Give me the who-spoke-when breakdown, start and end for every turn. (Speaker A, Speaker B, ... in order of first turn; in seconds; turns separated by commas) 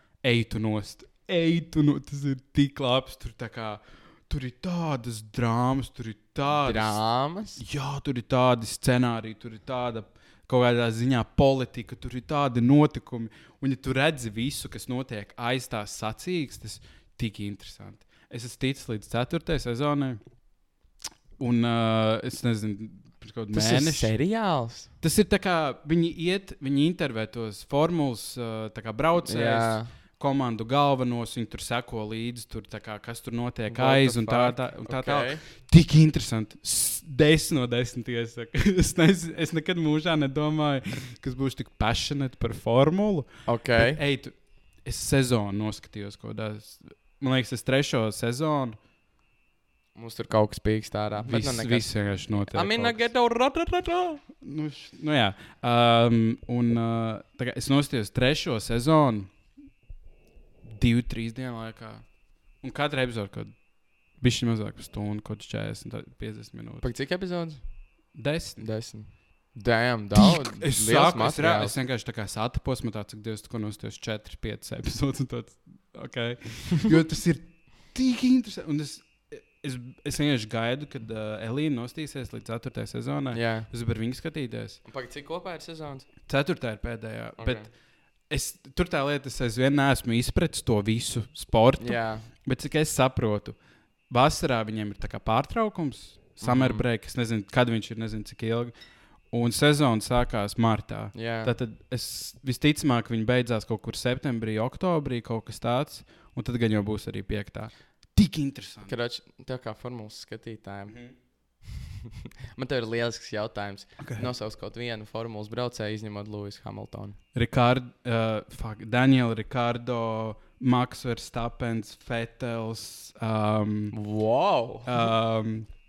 Speaker A: 0.2-7.0, Speaker B: 6.6-7.6, Speaker A: 7.6-20.2, Speaker A: 21.4-24.1, Speaker B: 23.5-24.9, Speaker A: 25.0-48.8, Speaker B: 29.2-29.9, Speaker B: 33.7-35.4, Speaker B: 43.5-44.0, Speaker B: 50.0-54.2, Speaker A: 51.2-53.1, Speaker A: 54.4-59.3, Speaker A: 60.6-66.9, Speaker B: 66.8-67.9, Speaker A: 68.1-68.7, Speaker B: 68.6-71.7, Speaker A: 70.1-84.8, Speaker B: 83.3-83.7, Speaker B: 84.9-86.1, Speaker A: 86.2-87.7, Speaker B: 87.4-87.7, Speaker A: 88.3-93.6, Speaker B: 91.8-92.3, Speaker A: 94.1-98.7, Speaker B: 96.4-96.8, Speaker A: 99.3-108.9, Speaker B: 101.1-101.5, Speaker B: 108.8-111.6, Speaker B: 112.5-117.2, Speaker A: 114.0-114.3, Speaker A: 117.3-124.0, Speaker B: 123.9-124.9, Speaker A: 124.8-125.7